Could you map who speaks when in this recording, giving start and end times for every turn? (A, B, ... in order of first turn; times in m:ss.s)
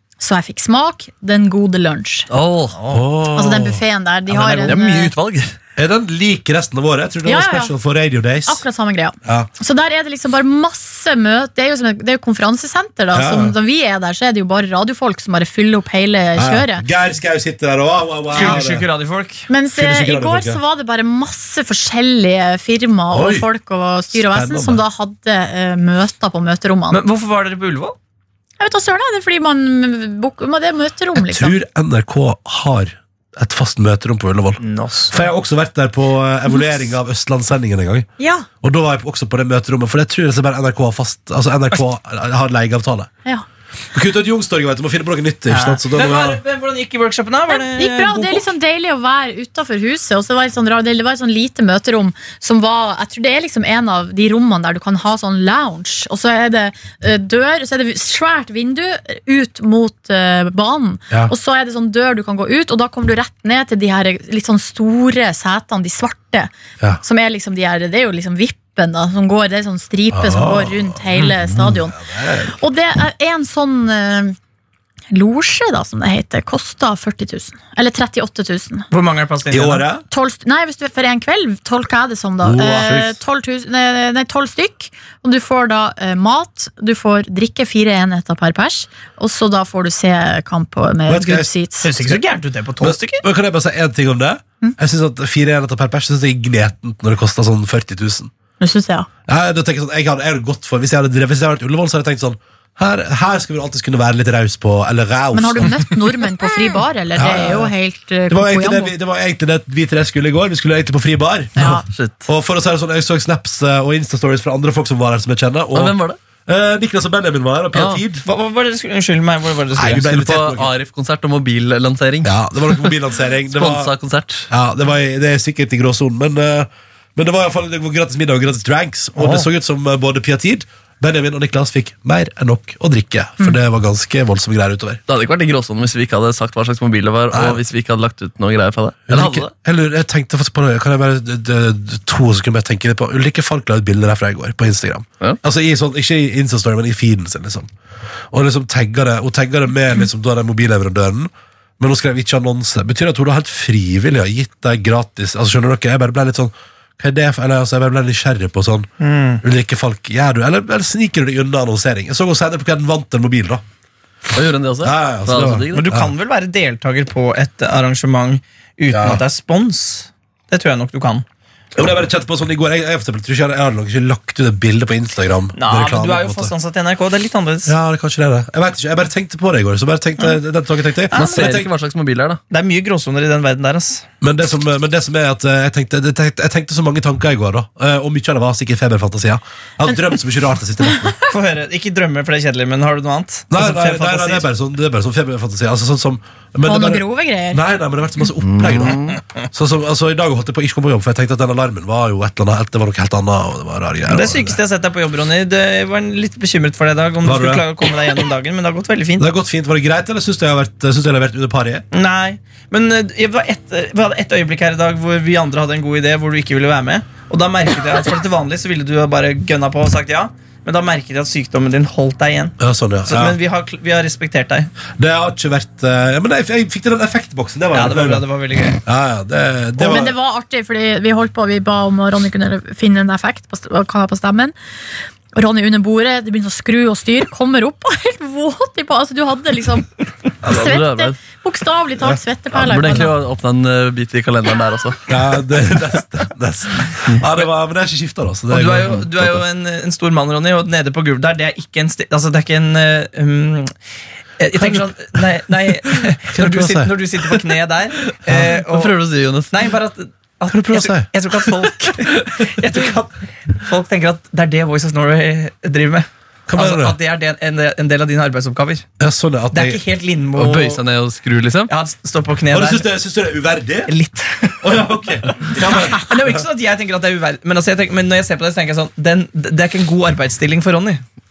0:00.2-0:02.3 A
0:02.3-0:03.0 B
0:02.9-0:03.8 C
0:03.3-0:05.1 A
0:04.3-0:05.6 B
0:05.8-0:08.6 C
0:07.2-0:07.8 A
0:08.4-0:16.8 A
0:09.2-0:09.5 C
0:13.1-0:13.6 C
0:16.4-0:18.9 C
0:18.3-0:19.5 D
0:19.5-0:27.0 A
0:19.7-0:20.6 C
0:23.1-0:23.5 C
0:24.1-0:24.8 C
0:26.9-0:28.0 D
0:28.6-0:31.6 A
0:31.2-0:38.1 C
0:34.6-0:35.3 D
0:38.2-0:38.5 A
0:38.6-0:43.1 C
0:43.9-0:46.4 C
0:45.5-0:48.5 D
0:47.5-1:12.0 A
1:10.1-1:12.6 C
1:12.5-1:14.4 A
1:15.1-1:18.9 A
1:18.9-1:19.9 D
1:19.5-1:20.0 C
1:20.1-1:31.9 A
1:22.4-1:23.2 C
1:31.1-1:32.2 C
1:31.8-1:33.2 D
1:32.8-1:38.3 C
1:38.6-1:39.1 A
1:39.3-1:46.0 C
1:45.3-1:48.9 A
1:47.2-1:47.7 C
1:48.3-1:55.9 C
1:51.6-1:51.8 A
1:51.6-1:52.3 B
1:55.7-1:56.2 B
1:56.5-1:58.2 C
1:57.7-1:58.0 B
1:58.2-2:00.1 D
1:59.7-2:00.7 C
2:00.0-2:02.9 B
2:02.2-2:03.9 C
2:03.5-2:04.5 B
2:04.5-2:15.0 C
2:09.2-2:09.4 D
2:15.1-2:19.5 B
2:17.3-2:17.6 C
2:19.1-2:27.7 C
2:28.3-2:38.9 C
2:39.0-2:39.4 D
2:39.4-2:43.6 C
2:44.3-2:45.8 B
2:44.8-2:46.1 C
2:45.7-2:51.2 D
2:48.9-2:49.2 C
2:51.8-2:56.5 C
2:55.6-2:57.7 D
2:57.7-3:01.6 C
3:01.1-3:01.7 D
3:01.1-3:02.4 B
3:02.5-3:04.1 D
3:04.2-3:11.1 C
3:11.3-3:14.4 D
3:13.5-3:19.0 C
3:16.6-3:17.6 A
3:18.4-3:19.2 B
3:19.5-3:24.6 C
3:24.1-3:29.3 D
3:27.2-3:27.6 C
3:29.2-3:31.8 C
3:31.9-3:44.7 D
3:42.6-3:43.4 C
3:45.0-3:48.2 C
3:47.7-3:48.8 D
3:48.8-3:50.1 C
3:49.8-3:54.6 A
3:55.4-3:59.9 A
4:00.4-4:03.1 A
4:00.4-4:01.2 B
4:02.5-4:05.1 B
4:05.1-4:09.4 C
4:08.5-4:13.7 D
4:14.4-4:19.0 D
4:14.6-4:14.9 C
4:16.3-4:16.9 C
4:18.3-4:18.5 C
4:18.4-4:19.7 B
4:19.5-4:28.9 D
4:20.5-4:21.1 C
4:26.5-4:27.0 C
4:29.0-4:29.8 C
4:29.5-4:30.8 D
4:30.4-4:31.7 B
4:31.7-4:32.9 D
4:32.5-4:33.9 C
4:33.9-4:34.6 D
4:34.6-4:36.4 C
4:35.4-4:41.0 D